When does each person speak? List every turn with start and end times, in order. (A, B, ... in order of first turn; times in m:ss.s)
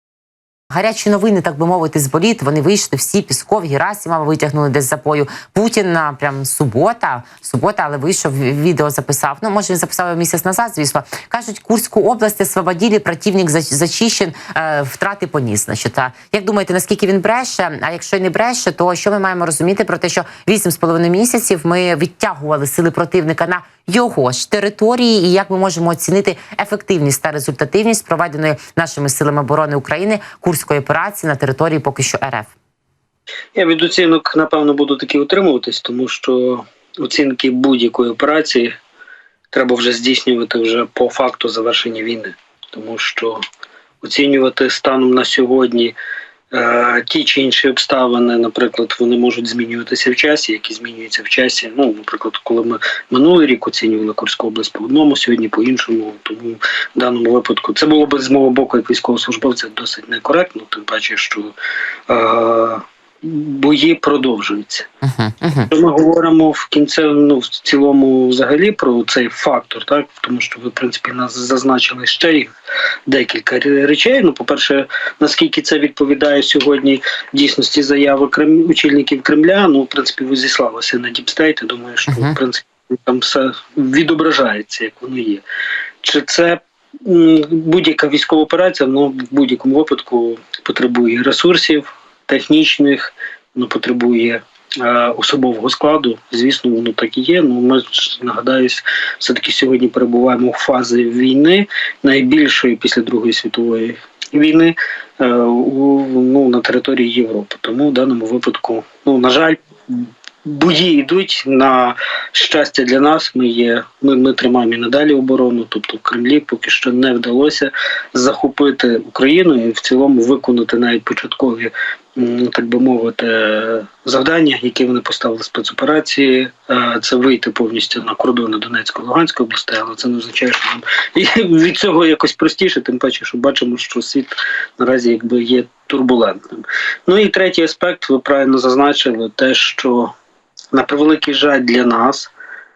0:00.7-0:32.5 A
0:33.5-0:38.7 B
0:39.5-0:43.4 B
0:44.0-0:45.9 B
0:46.5-1:01.5 B
1:02.1-1:04.9 B
1:05.0-1:05.7 A
1:05.7-1:12.5 B
1:13.1-1:25.4 B
1:22.1-1:22.3 A
1:26.0-2:20.1 B
2:20.7-2:22.3 B